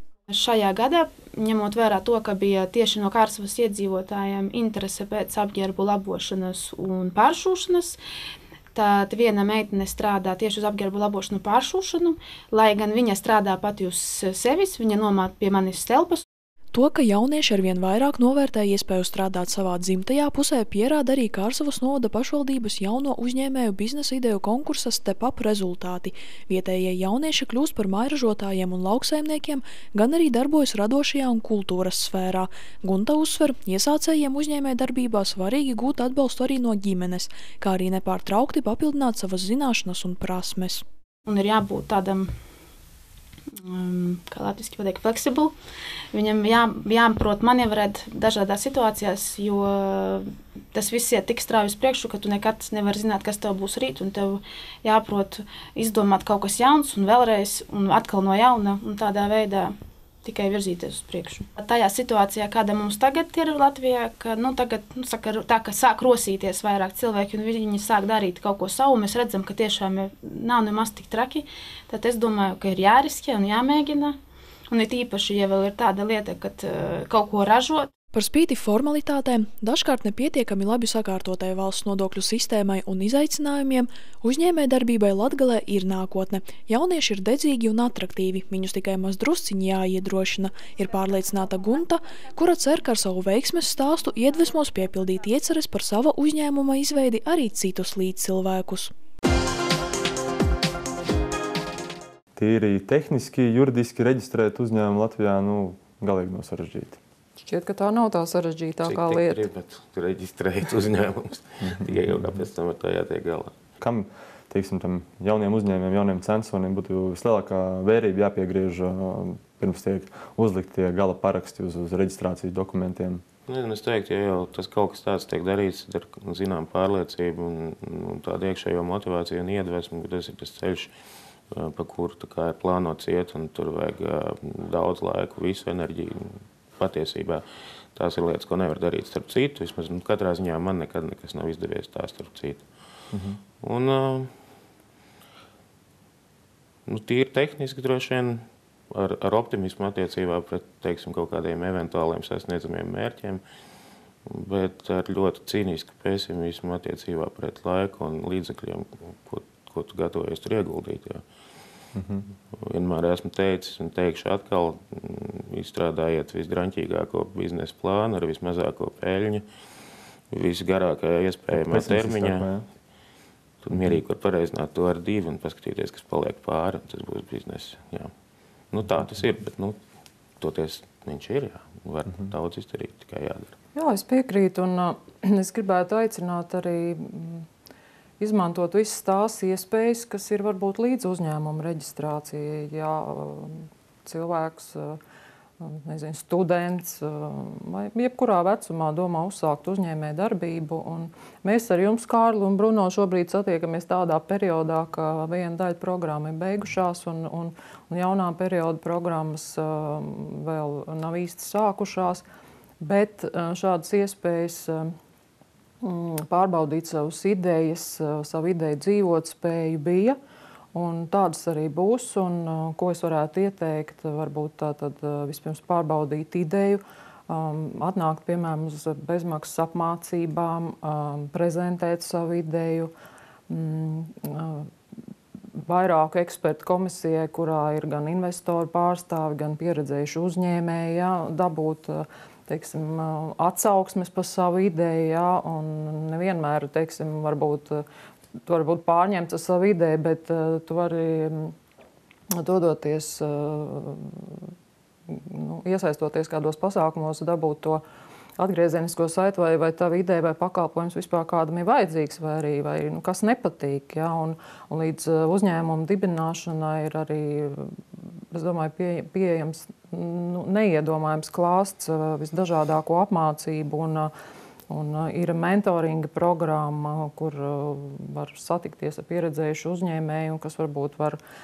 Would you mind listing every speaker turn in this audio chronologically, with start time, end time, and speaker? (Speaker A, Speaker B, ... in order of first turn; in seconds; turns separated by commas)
Speaker A: 0.3-8.0, Speaker A: 8.7-16.2, Speaker B: 16.7-40.8, Speaker A: 41.2-42.4, Speaker A: 43.5-45.5, Speaker A: 46.1-74.2, Speaker A: 74.7-77.9, Speaker B: 78.1-98.9, Speaker C: 102.4-107.0, Speaker D: 107.4-109.4, Speaker E: 108.8-113.5, Speaker C: 111.7-112.3, Speaker C: 113.8-123.2, Speaker E: 123.5-130.9, Speaker E: 131.5-137.4, Speaker E: 137.9-142.6, Speaker C: 143.1-143.4, Speaker E: 143.6-144.3, Speaker E: 146.9-153.4, Speaker E: 154.2-161.2, Speaker C: 161.9-162.3, Speaker E: 162.6-169.4, Speaker E: 170.3-172.5, Speaker C: 171.5-172.7, Speaker E: 173.6-178.1, Speaker E: 178.7-179.8, Speaker E: 180.4-183.5, Speaker D: 183.8-187.5, Speaker D: 188.2-195.0, Speaker D: 195.6-212.2, Speaker D: 212.8-214.9, Speaker D: 215.8-220.2, Speaker D: 220.8-232.9, Speaker D: 233.5-234.7, Speaker D: 235.7-247.8, Speaker D: 248.4-251.5, Speaker D: 252.4-254.4, Speaker D: 255.1-257.8, Speaker D: 258.4-267.8, Speaker D: 268.3-274.1, Speaker D: 274.7-281.2